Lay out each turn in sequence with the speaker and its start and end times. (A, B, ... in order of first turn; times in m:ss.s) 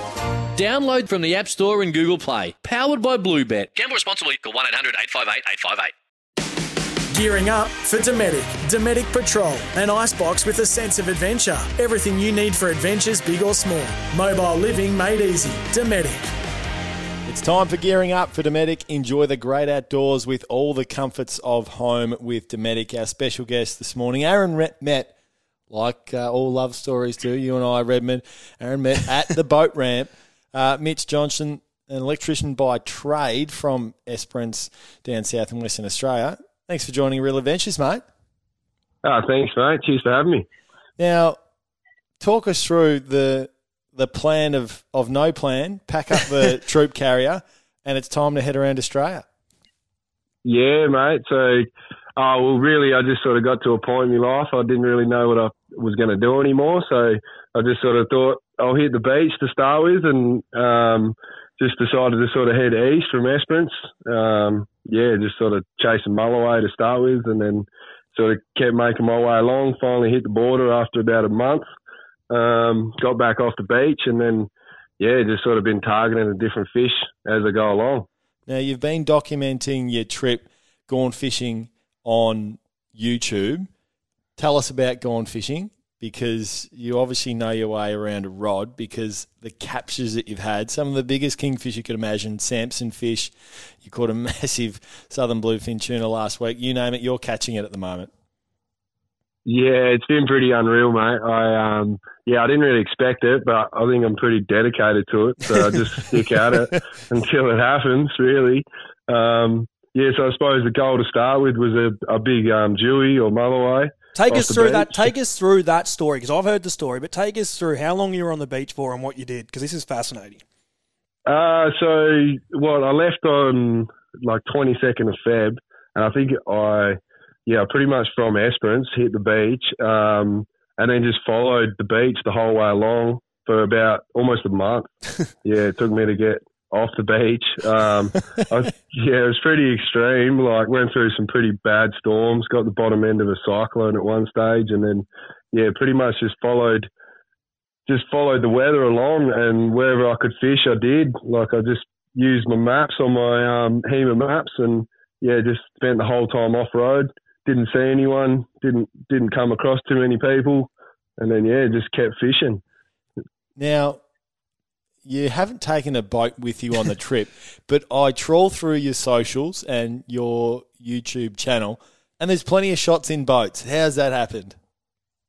0:00.5-0:05.9 A
0:07.1-0:16.2 B
0:17.2-0:25.1 C
0:25.7-0:38.0 C
0:39.0-0:40.5 D
0:41.0-0:41.4 C
0:42.2-0:49.2 C
0:50.4-1:11.6 D
1:12.3-1:18.1 D
1:18.5-1:23.7 C
1:24.4-1:38.1 C
1:39.4-1:55.1 D
1:54.1-2:00.4 E
2:01.2-2:14.9 D
2:15.4-2:26.9 D
2:27.8-2:42.6 D
2:43.6-2:44.0 C
2:45.0-2:54.6 C